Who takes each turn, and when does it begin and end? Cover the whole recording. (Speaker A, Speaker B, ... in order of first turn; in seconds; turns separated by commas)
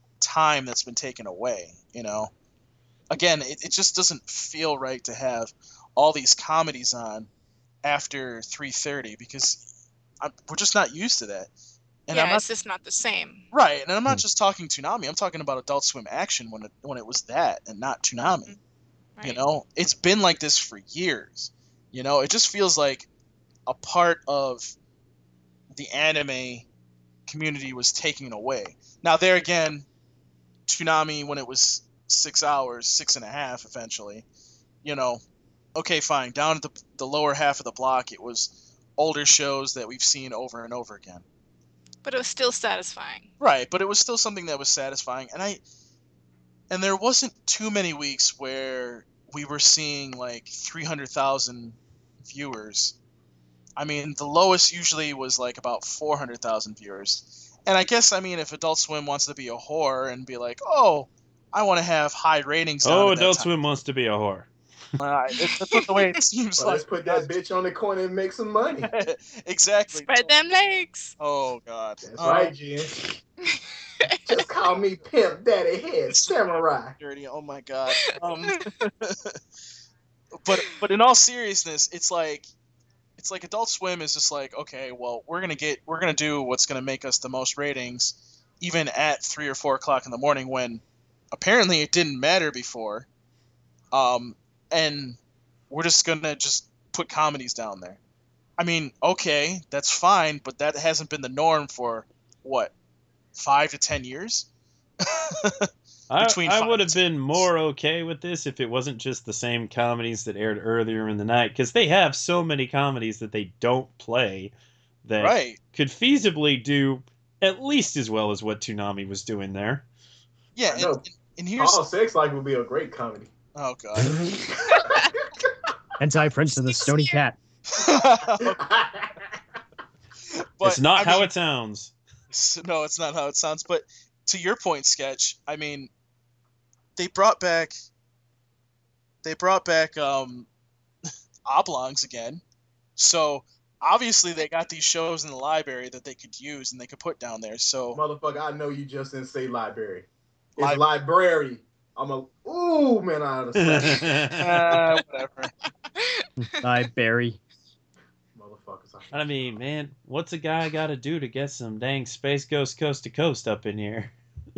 Speaker A: 0.2-2.3, Speaker A: 3.1-7.3, Speaker A: 7.8-9.7, Speaker A: 10.2-11.5, Speaker A: 12.1-12.5, Speaker B: 12.1-13.4, Speaker A: 13.5-18.5, Speaker A: 19.2-23.1, Speaker A: 23.7-24.7, Speaker A: 25.7-26.7, Speaker A: 27.3-29.9, Speaker A: 30.7-34.2, Speaker A: 34.8-35.2, Speaker A: 35.8-41.2, Speaker B: 42.0-43.3, Speaker A: 43.4-45.6, Speaker A: 46.7-53.0, Speaker A: 53.8-63.5, Speaker C: 62.8-64.5, Speaker A: 65.0-67.3, Speaker B: 65.5-65.9, Speaker D: 66.6-68.9, Speaker A: 68.9-70.3, Speaker B: 69.9-71.1, Speaker A: 71.2-72.5, Speaker D: 72.0-73.1, Speaker B: 73.5-74.2, Speaker D: 74.3-76.9, Speaker A: 76.1-79.4, Speaker B: 78.0-78.7, Speaker A: 80.4-82.5, Speaker A: 83.2-93.1, Speaker A: 93.9-95.2, Speaker A: 95.7-98.0, Speaker A: 98.6-102.7, Speaker A: 103.4-104.5, Speaker A: 105.0-107.5, Speaker C: 106.1-114.5, Speaker C: 115.0-119.8, Speaker A: 115.2-115.6, Speaker A: 120.5-121.8, Speaker D: 120.7-121.0, Speaker D: 121.6-123.3, Speaker A: 123.5-124.2, Speaker D: 124.2-125.0, Speaker B: 124.7-125.1, Speaker E: 126.0-127.4, Speaker B: 126.5-127.2, Speaker A: 127.7-128.6, Speaker D: 128.4-129.2, Speaker A: 130.6-131.3, Speaker C: 130.6-131.9, Speaker A: 132.3-135.9, Speaker A: 137.0-137.7, Speaker A: 139.2-140.5, Speaker A: 141.5-142.4, Speaker A: 143.0-148.0, Speaker D: 147.9-154.2, Speaker A: 150.6-150.8, Speaker C: 153.6-154.8, Speaker A: 154.4-155.5, Speaker B: 156.0-156.2, Speaker E: 156.5-157.4, Speaker D: 158.3-159.6, Speaker C: 159.1-164.1